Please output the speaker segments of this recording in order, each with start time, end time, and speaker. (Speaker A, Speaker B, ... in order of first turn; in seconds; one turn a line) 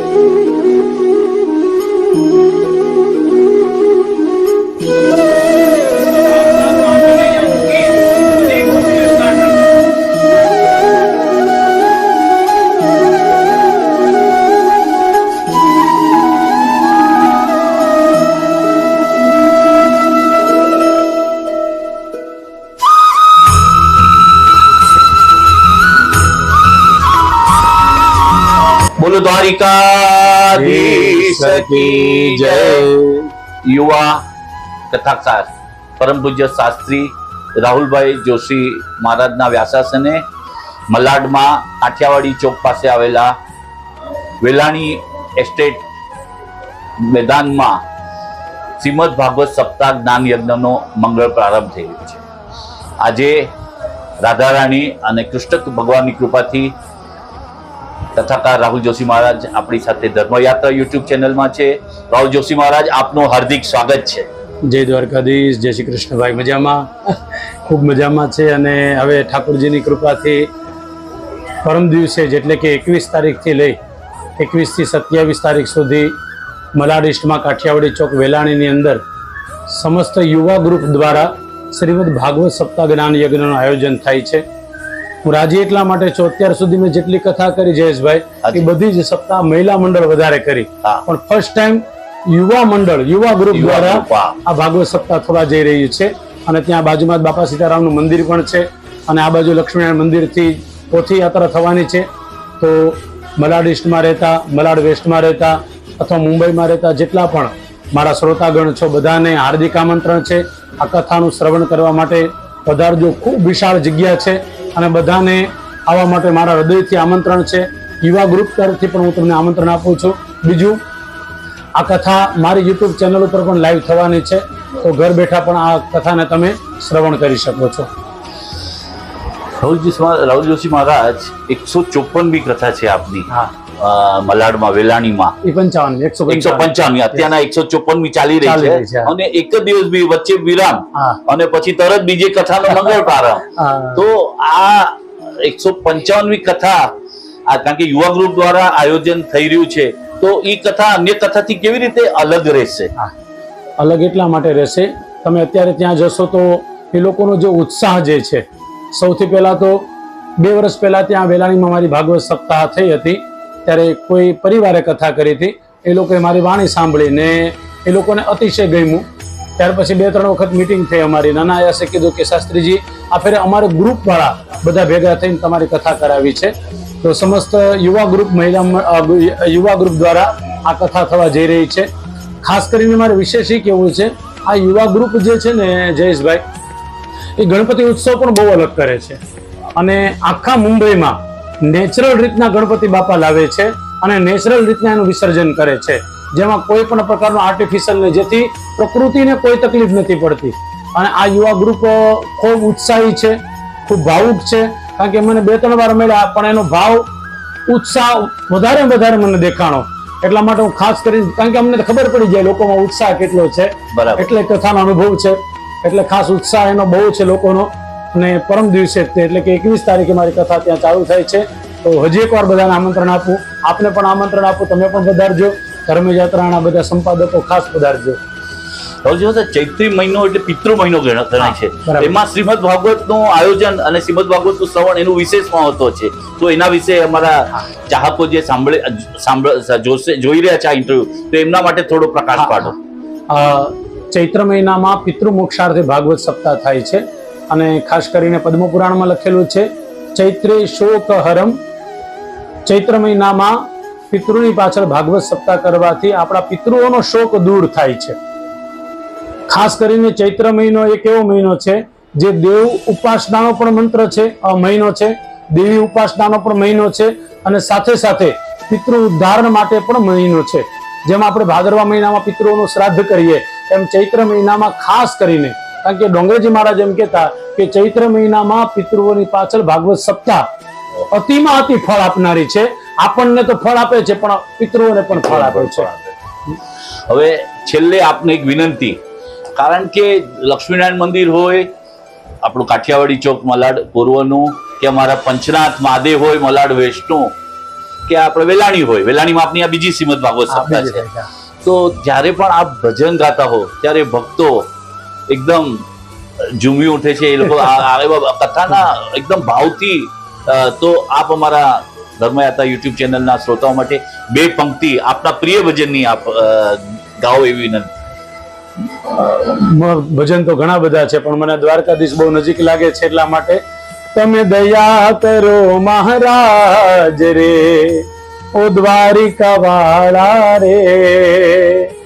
Speaker A: 6.5-9.5
Speaker B: 29.0-32.9
Speaker A: 30.5-33.3
Speaker B: 33.6-34.2
Speaker B: 34.9-40.2
Speaker B: 40.9-43.4
Speaker B: 44.4-45.9
Speaker B: 47.0-47.8
Speaker B: 48.8-52.2
Speaker B: 53.0-53.5
Speaker B: 54.2-56.7
Speaker B: 58.1-64.3
Speaker A: 64.7-70.5
Speaker A: 71.6-73.8
Speaker A: 74.4-76.2
Speaker A: 76.8-79.0
Speaker A: 79.7-84.4
Speaker A: 85.2-102.1
Speaker B: 93.5-94.4
Speaker A: 102.6-120.8
Speaker A: 121.8-127.9
Speaker B: 129.6-135.3
Speaker A: 135.4-136.7
Speaker B: 136.3-146.9
Speaker A: 138.4-139.1
Speaker A: 142.7-144.1
Speaker B: 147.5-152.9
Speaker A: 153.8-159.9
Speaker A: 160.4-169.1
Speaker A: 169.6-181.9
Speaker A: 182.4-186.4
Speaker A: 187.4-189.2
Speaker A: 189.8-207.0
Speaker A: 207.7-228.2
Speaker B: 213.9-214.2
Speaker B: 229.1-242.8
Speaker A: 231.4-232.2
Speaker A: 242.3-242.7
Speaker A: 243.3-251.6
Speaker A: 252.7-253.6
Speaker A: 254.1-258.2
Speaker A: 259.5-280.4
Speaker A: 281.1-285.9
Speaker B: 285.1-286.1
Speaker B: 287.1-289.0
Speaker B: 289.6-291.7
Speaker B: 292.4-297.3
Speaker B: 298.1-301.0
Speaker A: 300.5-301.3
Speaker B: 301.6-304.7
Speaker B: 305.3-305.8
Speaker B: 306.6-317.9
Speaker A: 319.1-323.6
Speaker A: 324.1-331.9